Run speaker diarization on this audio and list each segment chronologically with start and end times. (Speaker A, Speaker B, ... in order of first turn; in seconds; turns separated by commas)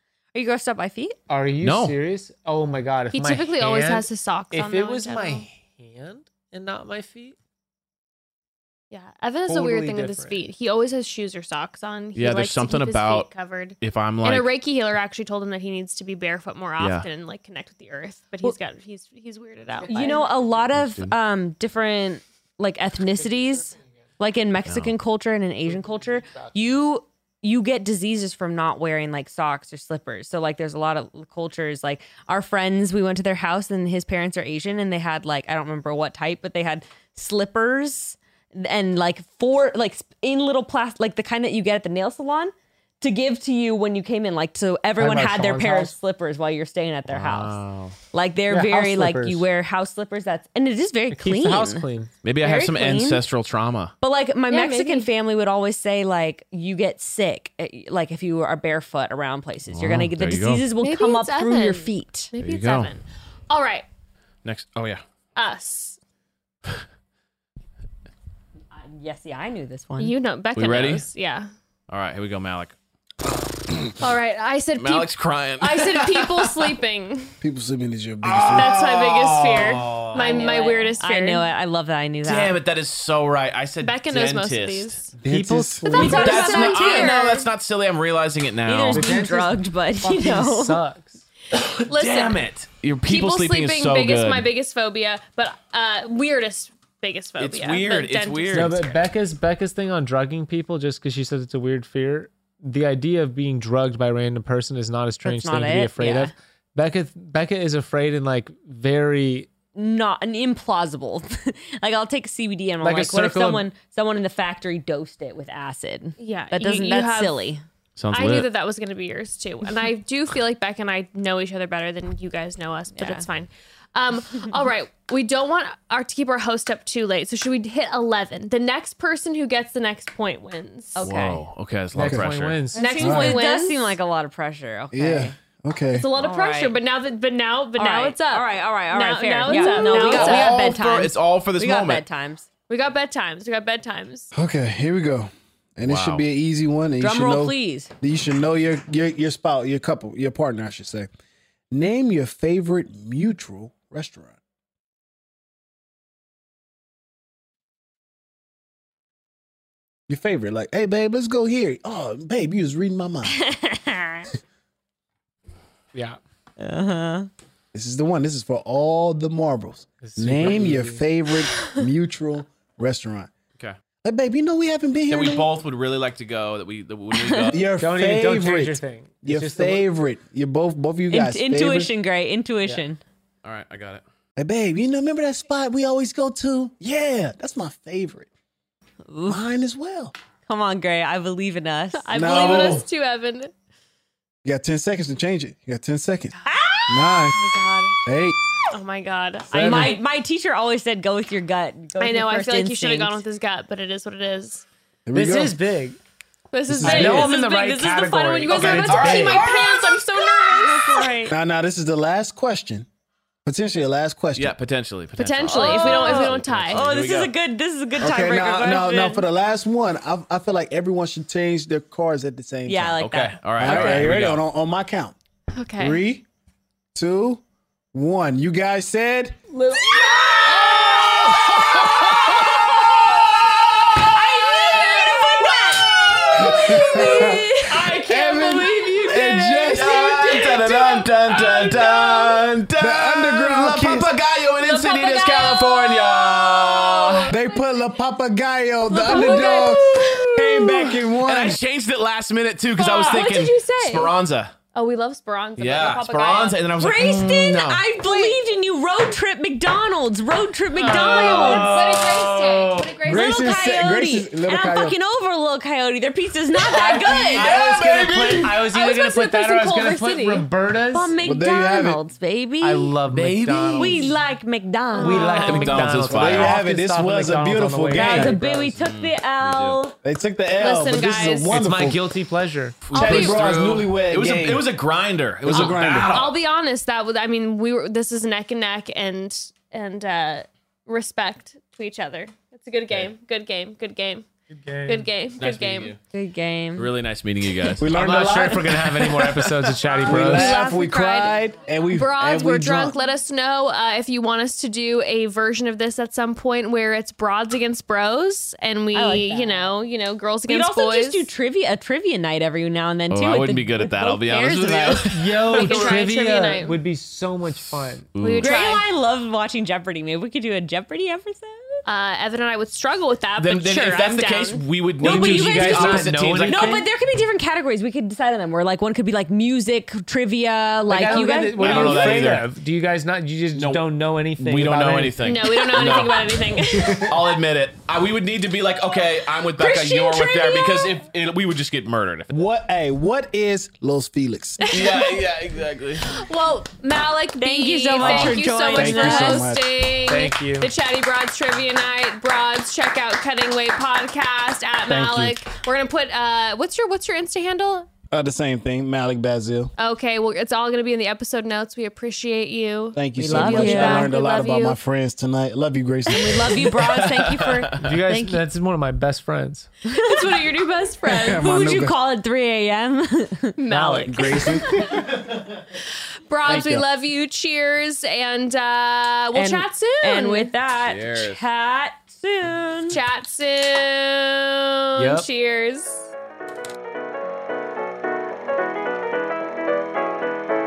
Speaker A: 0.3-1.2, Speaker B: 1.3-7.3, Speaker C: 1.6-1.9, Speaker D: 3.1-5.5, Speaker D: 8.9-20.2, Speaker B: 9.5-10.5, Speaker C: 12.1-14.6, Speaker C: 16.8-17.1, Speaker B: 19.8-20.2, Speaker A: 19.9-47.6, Speaker C: 20.7-21.1, Speaker B: 23.1-23.9, Speaker C: 24.6-24.9, Speaker B: 25.6-26.7, Speaker B: 45.0-45.9, Speaker C: 47.1-48.0, Speaker A: 48.1-51.9, Speaker B: 48.5-49.5, Speaker B: 51.1-52.1, Speaker C: 52.2-53.9, Speaker A: 52.4-53.2, Speaker A: 54.0-62.3, Speaker D: 54.5-55.1, Speaker C: 59.7-60.7, Speaker D: 60.8-63.9, Speaker C: 62.4-63.0, Speaker C: 64.4-65.0, Speaker D: 65.3-66.0, Speaker A: 68.7-70.2, Speaker D: 70.0-71.5, Speaker C: 70.5-71.1, Speaker C: 71.9-72.7, Speaker C: 73.2-74.0, Speaker D: 74.0-77.3, Speaker C: 74.8-76.7, Speaker E: 77.4-78.7, Speaker C: 78.2-80.6, Speaker D: 78.5-81.5, Speaker A: 80.1-82.5, Speaker C: 82.2-85.0, Speaker D: 83.8-85.1, Speaker E: 85.2-85.9, Speaker B: 85.2-86.2, Speaker D: 85.8-87.4, Speaker A: 85.9-87.4, Speaker C: 86.0-89.2, Speaker A: 88.7-90.8, Speaker B: 88.9-91.2, Speaker C: 91.5-94.5, Speaker D: 91.9-92.4, Speaker D: 93.0-98.9, Speaker C: 97.4-99.0, Speaker B: 98.5-109.5, Speaker A: 105.2-106.3, Speaker A: 109.7-117.6, Speaker B: 112.8-113.7, Speaker D: 116.2-117.5, Speaker C: 118.0-118.5, Speaker D: 118.1-131.0, Speaker A: 122.9-123.2, Speaker A: 130.9-131.4, Speaker C: 131.0-132.6, Speaker B: 131.9-133.0, Speaker E: 132.0-132.3, Speaker D: 132.7-134.0, Speaker A: 132.7-135.3, Speaker E: 133.0-133.4, Speaker E: 134.9-136.1, Speaker D: 135.9-140.6, Speaker A: 136.1-136.8, Speaker A: 137.8-142.4, Speaker C: 139.8-142.0, Speaker D: 142.7-144.3, Speaker E: 144.3-151.1, Speaker C: 145.8-146.2, Speaker A: 147.0-147.9, Speaker E: 151.7-154.4, Speaker E: 160.1-163.4, Speaker A: 163.4-164.3, Speaker B: 165.9-166.2, Speaker A: 166.6-167.3, Speaker E: 167.7-173.3, Speaker B: 170.0-171.0, Speaker E: 174.0-175.5, Speaker C: 175.1-177.6, Speaker A: 177.1-177.5, Speaker E: 177.5-181.9, Speaker B: 177.8-179.9, Speaker A: 181.1-183.0, Speaker C: 183.4-184.0, Speaker E: 184.3-188.3, Speaker A: 189.1-189.4, Speaker E: 189.2-190.1, Speaker A: 190.5-192.1, Speaker D: 192.0-193.5, Speaker E: 192.1-192.8, Speaker E: 194.4-196.3, Speaker A: 196.4-197.1, Speaker E: 196.9-197.4, Speaker D: 197.3-198.0, Speaker E: 198.0-198.4, Speaker D: 198.7-200.0, Speaker E: 199.5-200.0, Speaker A: 199.5-203.2, Speaker D: 202.0-204.7, Speaker E: 205.1-205.6, Speaker B: 205.1-206.0, Speaker D: 206.5-211.4, Speaker E: 206.7-207.3, Speaker B: 206.8-209.6, Speaker C: 208.5-209.6, Speaker A: 209.0-209.3, Speaker A: 210.6-211.2, Speaker E: 211.3-212.9, Speaker E: 213.4-214.5, Speaker C: 214.3-217.3, Speaker D: 215.1-216.8, Speaker A: 215.5-219.2, Speaker E: 218.0-223.0, Speaker A: 222.7-224.0, Speaker C: 223.0-224.4, Speaker E: 223.6-225.1, Speaker D: 225.6-226.0, Speaker E: 225.8-226.2, Speaker E: 226.9-227.4, Speaker E: 227.9-229.4, Speaker D: 229.5-231.9, Speaker E: 231.4-232.3, Speaker A: 234.0-235.8, Speaker D: 234.1-242.4, Speaker C: 235.8-236.6, Speaker E: 236.4-237.4, Speaker A: 237.0-237.4, Speaker E: 238.0-240.3, Speaker C: 239.7-247.3, Speaker E: 242.8-244.1, Speaker D: 244.6-247.4, Speaker E: 247.3-251.6, Speaker D: 248.9-250.9, Speaker A: 249.0-249.9, Speaker C: 251.2-254.5, Speaker D: 252.8-254.1, Speaker D: 254.7-256.6, Speaker C: 255.6-257.9, Speaker A: 256.8-261.7, Speaker D: 258.0-258.4, Speaker B: 260.8-261.9, Speaker C: 260.8-263.0, Speaker D: 260.9-263.7, Speaker E: 263.0-264.9, Speaker A: 263.1-267.6, Speaker B: 266.7-271.2, Speaker C: 267.3-268.6, Speaker D: 268.5-270.5, Speaker A: 270.9-273.0, Speaker E: 271.2-272.0, Speaker B: 272.6-274.1, Speaker C: 273.1-274.0, Speaker A: 273.8-275.8, Speaker D: 274.9-275.8, Speaker B: 274.9-278.8, Speaker C: 275.4-276.6, Speaker E: 276.1-278.3, Speaker A: 277.9-280.0, Speaker C: 278.7-279.8, Speaker E: 280.0-282.1, Speaker D: 280.5-281.6, Speaker B: 281.5-282.9, Speaker C: 282.8-286.4, Speaker D: 282.9-283.8, Speaker E: 282.9-284.7, Speaker E: 285.4-286.1, Speaker D: 285.5-294.3, Speaker B: 294.5-295.1, Speaker D: 294.8-295.9, Speaker C: 295.3-296.0, Speaker A: 296.1-296.9, Speaker C: 296.8-297.9, Speaker E: 297.8-298.8, Speaker B: 297.9-300.5, Speaker C: 298.7-299.8, Speaker D: 300.0-311.3, Speaker E: 300.0-302.9, Speaker A: 300.2-300.9, Speaker A: 308.9-309.7, Speaker A: 310.5-316.0, Speaker C: 313.1-315.9, Speaker B: 315.1-318.1, Speaker D: 315.6-316.8, Speaker C: 318.1-318.6, Speaker D: 318.2-318.9, Speaker A: 318.4-321.8, Speaker D: 321.9-324.7, Speaker C: 323.4-326.8, Speaker B: 325.0-326.9, Speaker A: 325.0-332.3, Speaker B: 330.9-335.9, Speaker C: 331.6-332.5, Speaker C: 333.5-342.4, Speaker D: 335.2-337.4, Speaker B: 336.6-337.1, Speaker D: 339.6-341.0, Speaker E: 342.3-344.6, Speaker D: 344.6-345.2, Speaker C: 344.7-346.0, Speaker D: 346.1-357.9, Speaker A: 347.4-349.5, Speaker B: 348.0-348.3, Speaker E: 348.7-349.6, Speaker B: 350.1-350.7, Speaker E: 354.9-355.4, Speaker E: 358.1-359.7, Speaker D: 359.8-364.8, Speaker E: 362.9-366.5, Speaker A: 363.2-364.1, Speaker A: 366.1-368.4, Speaker C: 366.8-367.9, Speaker B: 367.8-369.7, Speaker D: 369.9-371.5, Speaker A: 370.1-370.4, Speaker E: 371.1-372.0, Speaker A: 371.1-373.6, Speaker D: 373.6-374.6, Speaker B: 373.7-374.3, Speaker E: 373.8-374.7, Speaker D: 376.3-380.5, Speaker E: 376.4-376.8, Speaker A: 379.3-383.0, Speaker C: 380.8-381.4, Speaker D: 382.9-386.1, Speaker B: 385.0-385.3